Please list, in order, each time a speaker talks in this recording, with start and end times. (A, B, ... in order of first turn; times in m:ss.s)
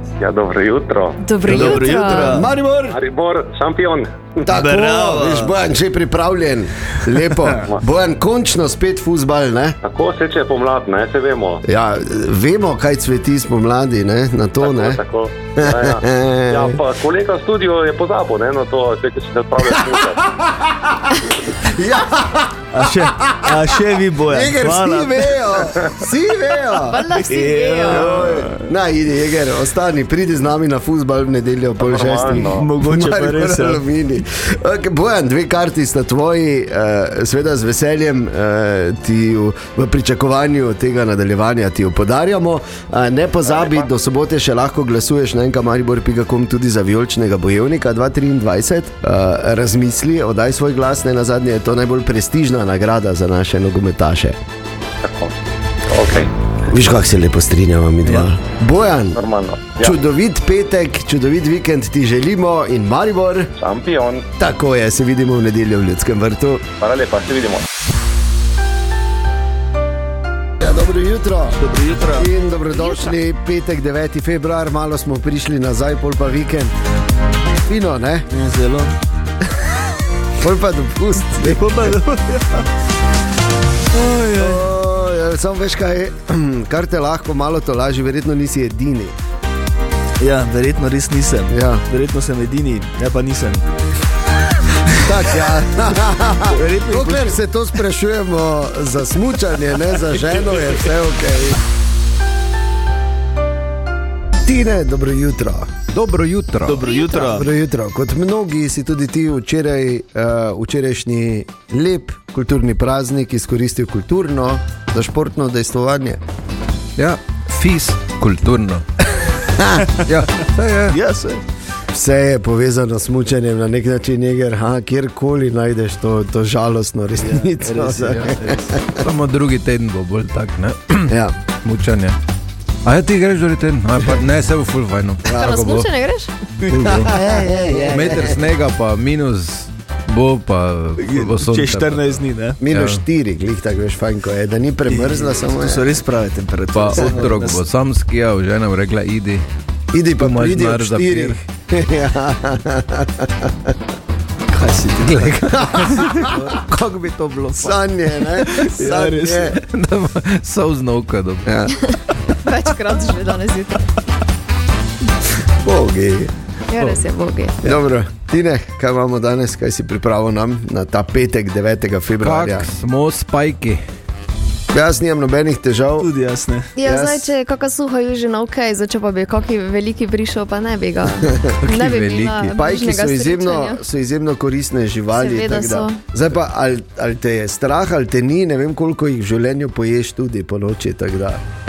0:00.2-0:01.2 A
0:01.2-0:02.4 B
0:01.5-0:02.5 C
0:01.5-0:03.0 D
0:02.9-0:04.3 A
0:04.4-0:09.8 D
0:04.5-0:05.5 C
0:09.8-0:11.6 A
0:11.6-0:15.0 D
0:14.6-0:20.2 A
0:15.6-0:16.8 D
0:19.6-0:27.1 D
0:22.7-0:25.6 C
0:26.7-0:28.2 B
0:27.2-0:28.7 C
0:27.9-0:54.4 D
0:31.8-0:32.6 A
0:32.3-0:33.8 C
0:43.6-0:43.8 A
0:55.0-0:55.4 A
0:55.9-0:56.3 A
0:56.6-0:59.2 D
0:58.0-0:58.3 C
0:59.1-1:00.0 A
0:59.8-1:03.5 D
1:03.6-1:04.3 A
1:04.4-1:06.7 D
1:06.8-1:07.7 A
1:10.6-1:11.6 D
1:11.6-1:12.3 C
1:12.1-1:16.8 D
1:17.7-1:18.3 D
1:18.3-1:19.0 C
1:20.4-1:22.0 D
1:21.4-1:22.7 C
1:23.9-1:24.7 C
1:24.4-1:29.2 D
1:30.2-1:33.7 C
1:31.5-1:31.8 D
1:35.0-1:41.6 D
1:36.5-1:37.4 C
1:40.3-1:40.7 C
1:44.4-1:45.7 D
1:45.9-1:46.9 E
1:46.7-1:47.5 C
1:46.9-1:56.2 D
1:57.0-1:58.9 E
1:59.6-1:59.9 D
2:00.1-2:01.0 E
2:00.9-2:01.4 C
2:01.9-2:09.1 D
2:07.2-2:08.6 C
2:09.0-2:12.2 E
2:11.1-2:11.4 D
2:12.8-2:15.9 E
2:15.3-2:16.3 B
2:16.6-2:18.2 C
2:16.7-2:18.4 D
2:17.8-2:23.0 E
2:21.0-2:22.6 C
2:22.6-2:25.9 D
2:24.9-2:27.6 C
2:26.7-2:29.4 E
2:27.0-2:27.3 D
2:29.9-2:33.8 D
2:30.2-2:31.4 E
2:34.5-2:36.7 C
2:35.2-2:39.6 D
2:37.4-2:37.8 C
2:38.4-2:39.6 C
2:39.6-2:41.6 E
2:41.5-2:41.8 D
2:41.7-2:43.8 B
2:45.6-2:46.3 D
2:46.7-2:47.7 B
2:47.6-2:52.7 D
2:52.2-2:53.8 E
2:54.7-2:56.1 D
2:56.0-2:56.7 C
2:56.8-3:03.8 B
2:56.8-2:57.3 D
3:01.2-3:01.5 D
3:01.6-3:02.5 E
3:02.5-3:11.4 D
3:05.1-3:06.0 B